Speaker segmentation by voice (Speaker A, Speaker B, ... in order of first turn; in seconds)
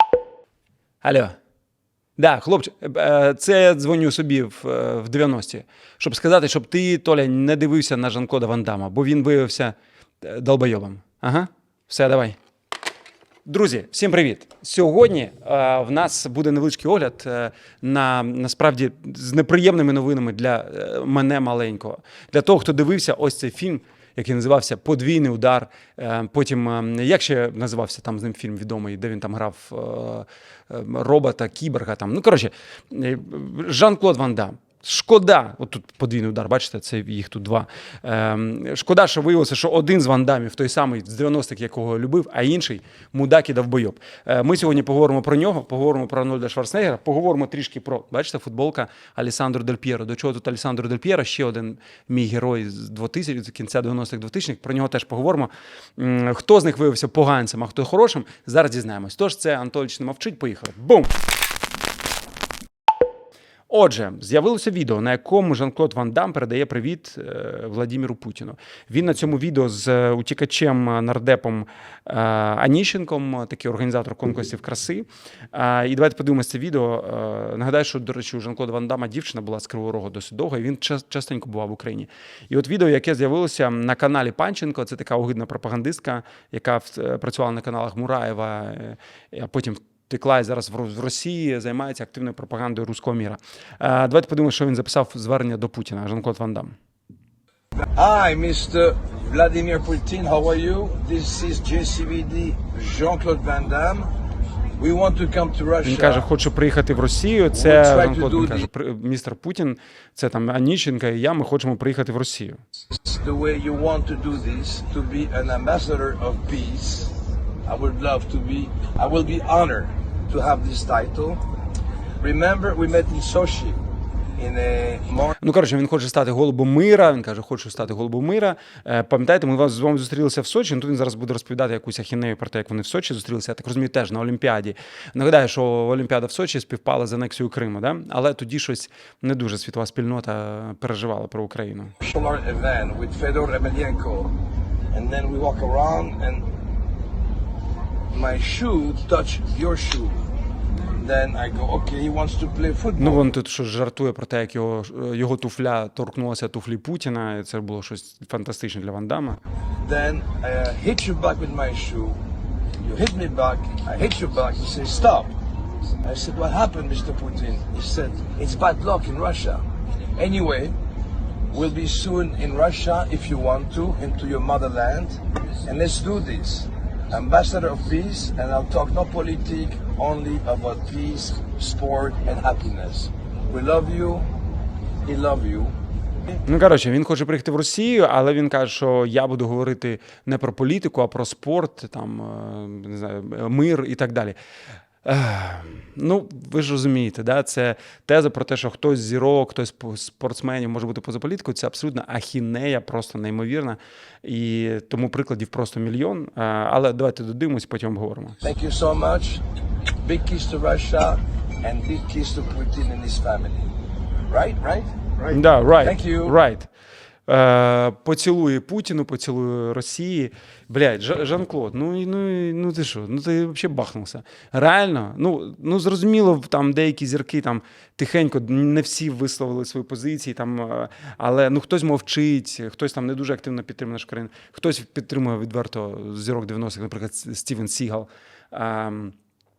Speaker A: 1.0-1.4, 2.2-12.4, 13.4-61.1, 63.7-96.8, 105.8-112.6, 125.4-142.0, 153.0-159.4, 186.4-194.3, 195.0-208.4, 215.3-216.7, 217.3-239.2
Speaker B: 97.9-104.1, 104.8-106.3, 107.5-108.6, 113.0-121.4, 122.2-123.8, 124.3-125.4, 142.0-144.4, 144.9-146.5, 148.1-150.2, 150.9-153.3, 159.8-162.2, 162.8-165.3, 166.0-170.8, 171.5-184.3, 185.0-185.7, 208.4-209.4, 210.0-213.7, 214.3-216.4